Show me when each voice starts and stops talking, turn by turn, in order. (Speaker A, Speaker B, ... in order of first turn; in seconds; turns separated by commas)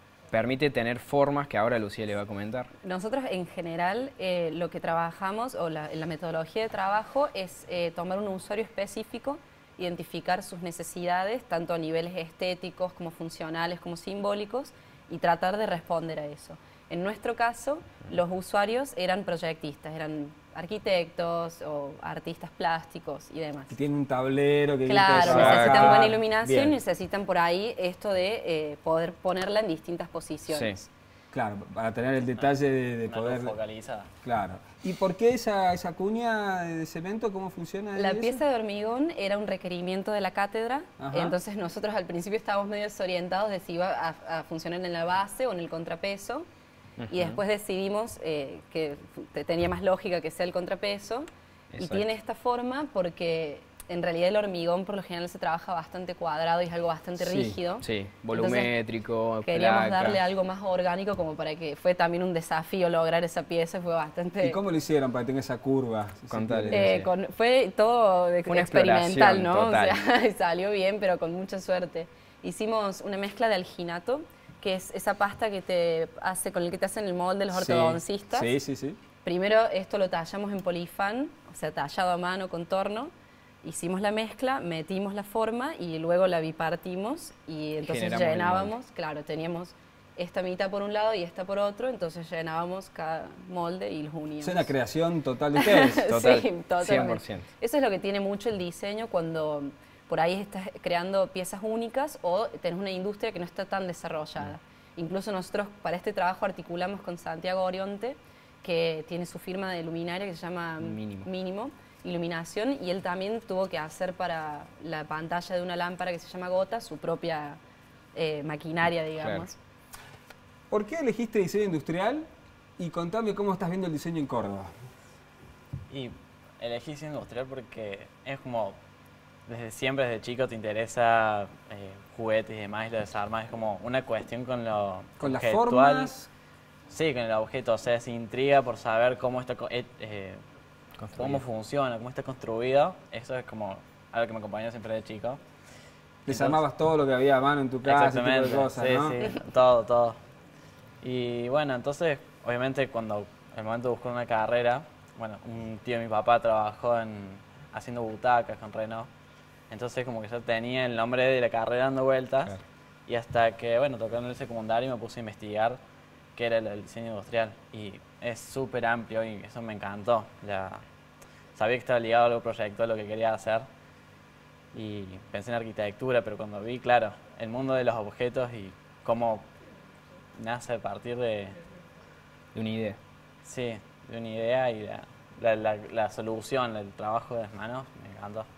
Speaker A: 0.3-2.7, Speaker B: 2.8-23.7, Speaker C: 23.7-26.7, Speaker B: 24.9-30.9, Speaker A: 25.2-26.0, Speaker A: 30.5-30.8, Speaker C: 31.3-33.5, Speaker D: 33.1-34.1, Speaker C: 34.2-38.4, Speaker B: 38.0-46.4, Speaker C: 41.0-41.4, Speaker A: 47.0-47.4, Speaker B: 47.1-51.3, Speaker A: 51.7-52.1, Speaker B: 51.8-58.7, Speaker C: 57.2-57.6, Speaker A: 57.8-60.2, Speaker B: 59.4-64.6, Speaker C: 64.4-66.9, Speaker A: 66.3-67.1, Speaker B: 66.7-78.5, Speaker A: 68.5-70.0, Speaker C: 77.5-79.0, Speaker B: 79.2-83.1, Speaker B: 83.6-94.7, Speaker A: 87.8-88.7, Speaker C: 94.4-96.0, Speaker B: 95.5-117.6, Speaker A: 96.1-97.5, Speaker A: 110.8-111.3, Speaker B: 118.1-119.6, Speaker A: 119.2-119.5, Speaker C: 120.7-122.3, Speaker C: 122.8-124.7, Speaker D: 125.9-128.8, Speaker D: 129.5-136.1, Speaker C: 135.2-136.3, Speaker D: 136.9-140.4, Speaker A: 141.0-141.4, Speaker D: 141.2-145.4, Speaker C: 146.2-149.3, Speaker D: 146.3-146.6, Speaker D: 147.8-150.2, Speaker D: 151.0-159.1, Speaker D: 159.7-162.6, Speaker D: 163.1-165.8, Speaker D: 166.3-170.8, Speaker D: 171.5-173.7, Speaker D: 174.7-179.5, Speaker D: 180.3-181.6, Speaker A: 182.5-183.0, Speaker D: 183.4-188.5